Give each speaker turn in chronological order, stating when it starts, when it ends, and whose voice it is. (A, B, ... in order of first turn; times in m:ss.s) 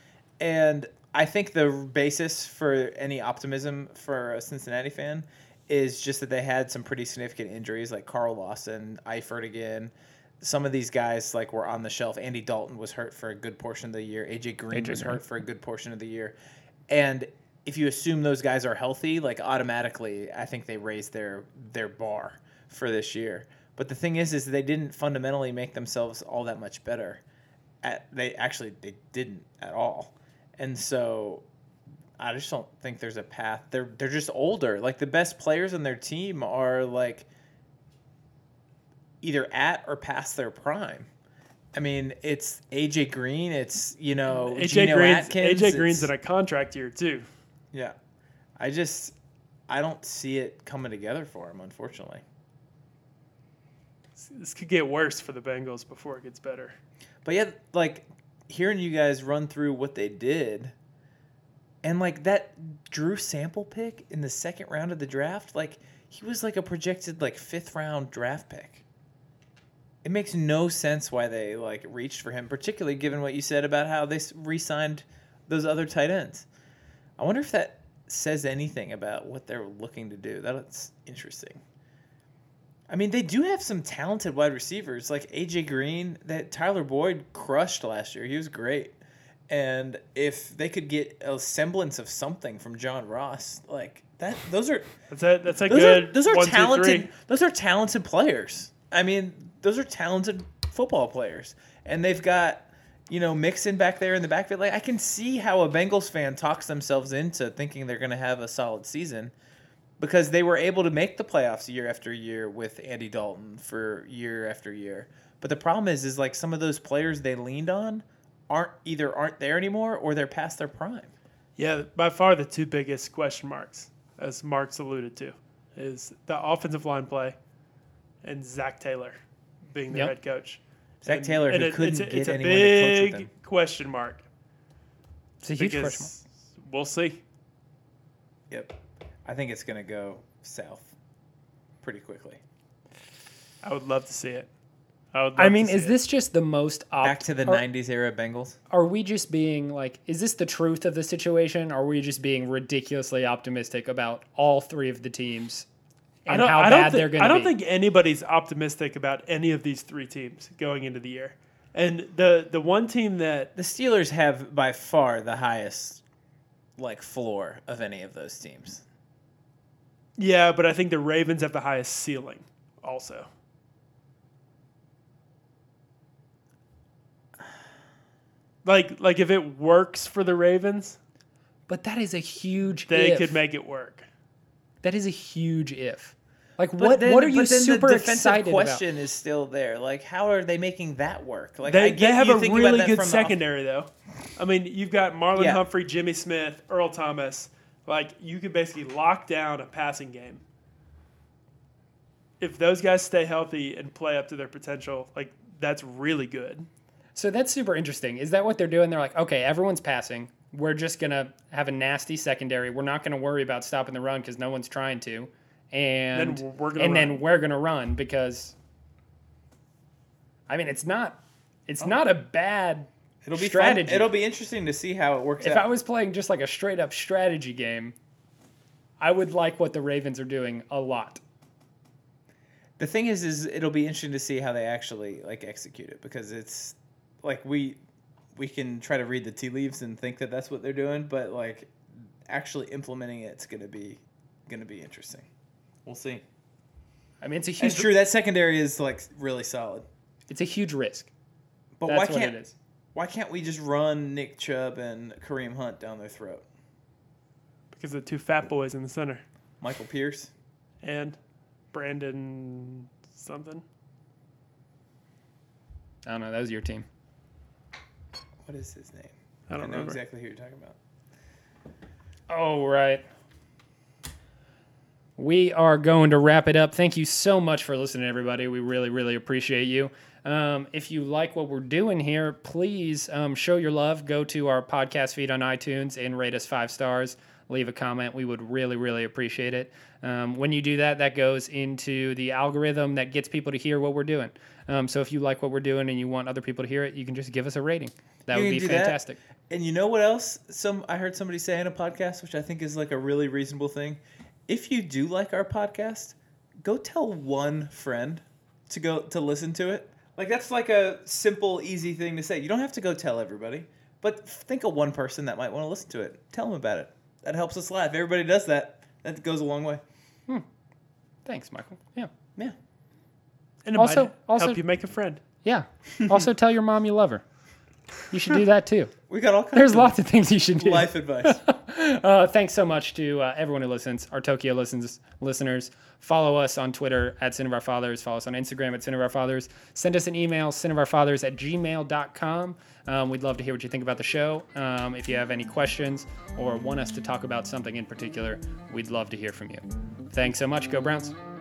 0:00.4-0:16.4 A
0:14.7-0:15.2 B
0:16.9-0:27.2 A
0:27.8-0:31.4 A
0:32.2-0:37.3 A
0:39.2-0:41.1 A
0:41.7-0:46.1 A
0:44.3-0:47.3 C
0:48.6-0:49.1 A
0:49.7-0:52.2 A
0:54.2-0:56.8 C
0:57.2-1:00.7 A
1:01.8-1:08.8 A
1:10.0-1:16.5 A
1:17.2-1:21.6 A
1:22.9-1:29.0 A
1:29.5-1:34.9 A
1:35.1-1:37.1 C
1:35.7-1:49.3 A
1:50.0-2:01.1 A
2:01.6-2:07.4 C
2:08.2-2:09.2 C
2:09.7-2:14.2 C
2:11.0-2:13.3 A
2:15.4-2:16.1 B
2:15.6-2:17.2 C
2:18.5-2:20.9 A
2:21.8-2:22.4 A
2:23.6-2:24.5 C
2:25.1-2:26.0 C
2:25.4-2:27.6 B
2:27.0-2:28.6 A
2:28.7-2:35.7 B
2:36.3-2:37.5 B
2:36.3-2:43.5 C
2:43.6-2:46.0 A
2:46.8-2:48.8 A
2:50.2-2:53.3 C
2:58.6-3:01.0 C
3:01.7-3:03.3 B
3:02.9-3:04.1 C
3:04.8-3:08.8 B
3:06.8-3:13.4 A
3:11.6-3:20.4 C
3:15.4-3:15.6 A
3:22.4-3:26.7 C
3:27.2-3:38.6 B
3:36.2-3:37.2 C
3:40.5-3:44.1 B
3:43.2-3:45.7 A
3:45.4-3:48.0 B
3:49.0-3:51.2 B
3:52.8-3:57.8 A
3:58.4-4:05.3 A
4:05.8-4:06.2 A
4:07.2-4:07.9 B
4:07.6-4:09.9 A
4:10.3-4:11.1 B
4:11.8-4:12.4 A
4:11.9-4:12.6 B
4:13.0-4:16.4 A
4:17.7-4:19.2 C
4:19.6-4:20.3 A
4:20.8-4:21.2 C
4:21.7-4:23.6 C
4:26.0-4:26.9 B
4:28.4-4:30.8 A
4:29.5-4:30.0 C
4:32.3-4:33.0 B
4:35.2-4:59.2 B
4:58.3-5:19.8 A
5:21.2-5:22.1 B
5:23.6-5:25.2 C
5:23.8-5:24.6 B
5:25.4-5:27.2 B
5:26.0-5:26.2 A
5:28.1-5:28.9 B
5:29.1-5:30.0 A
5:29.5-5:51.2 B
5:30.6-5:31.4 A